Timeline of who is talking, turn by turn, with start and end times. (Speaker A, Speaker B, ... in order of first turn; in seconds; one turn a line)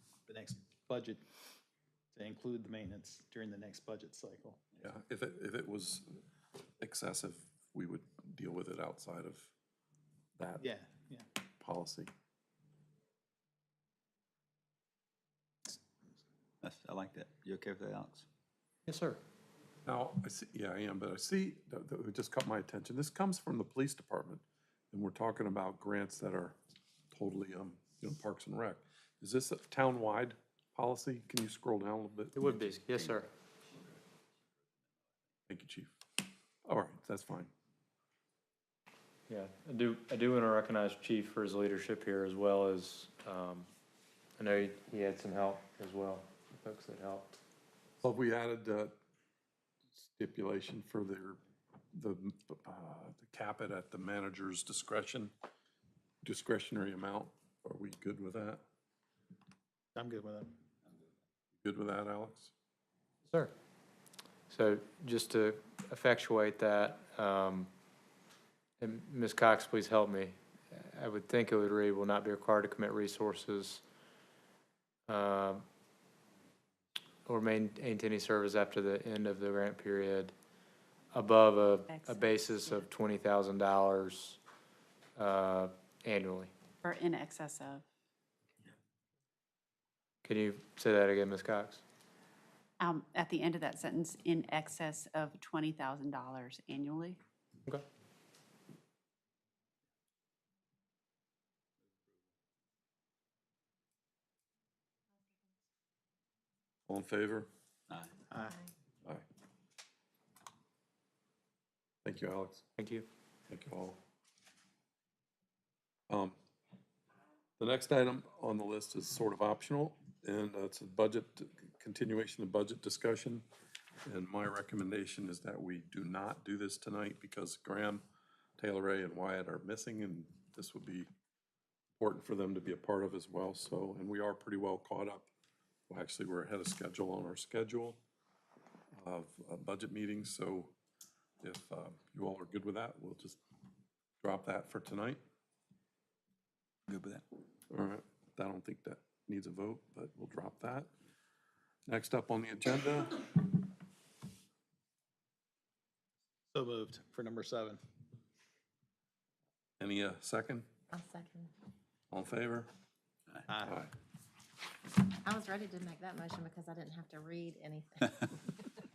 Speaker A: 0.3-1.2
Speaker A: 2.1-4.6
Speaker B: 4.8-6.2
Speaker B: 6.8-9.5
Speaker B: 10.4-10.7
Speaker A: 10.6-11.3
Speaker B: 11.6-12.1
Speaker C: 16.6-18.3
Speaker D: 18.9-19.2
Speaker B: 19.9-26.6
Speaker B: 27.1-32.4
Speaker D: 32.3-33.3
Speaker C: 32.9-33.2
Speaker B: 35.5-35.9
Speaker B: 36.7-37.5
Speaker D: 39.3-43.7
Speaker D: 44.4-47.4
Speaker B: 48.0-48.9
Speaker B: 50.0-51.4
Speaker B: 51.9-55.3
Speaker B: 56.2-58.6
Speaker A: 60.0-60.6
Speaker B: 61.5-62.5
Speaker D: 63.3-63.5
Speaker D: 64.5-67.7
Speaker D: 68.8-73.8
Speaker D: 75.1-75.7
Speaker D: 77.3-80.3
Speaker D: 81.1-84.4
Speaker E: 81.9-82.8
Speaker D: 85.2-86.5
Speaker E: 86.8-87.8
Speaker D: 90.2-91.8
Speaker E: 92.8-97.2
Speaker B: 106.9-107.5
Speaker C: 107.9-108.2
Speaker A: 108.3-108.6
Speaker B: 112.0-112.7
Speaker D: 112.8-113.1
Speaker B: 113.5-114.0
Speaker B: 116.1-116.3
Speaker B: 117.6-123.4
Speaker B: 124.1-128.0
Speaker B: 128.6-131.1
Speaker B: 132.0-135.3
Speaker B: 135.9-138.0
Speaker B: 138.9-140.8
Speaker B: 141.4-143.4
Speaker B: 144.2-145.2
Speaker C: 146.9-147.2
Speaker B: 147.7-150.9
Speaker B: 151.9-153.4
Speaker A: 156.5-157.8
Speaker B: 159.8-160.7
Speaker F: 160.9-161.5
Speaker B: 162.1-162.7
Speaker A: 163.5-163.8
Speaker B: 163.7-163.9
Speaker F: 165.2-168.3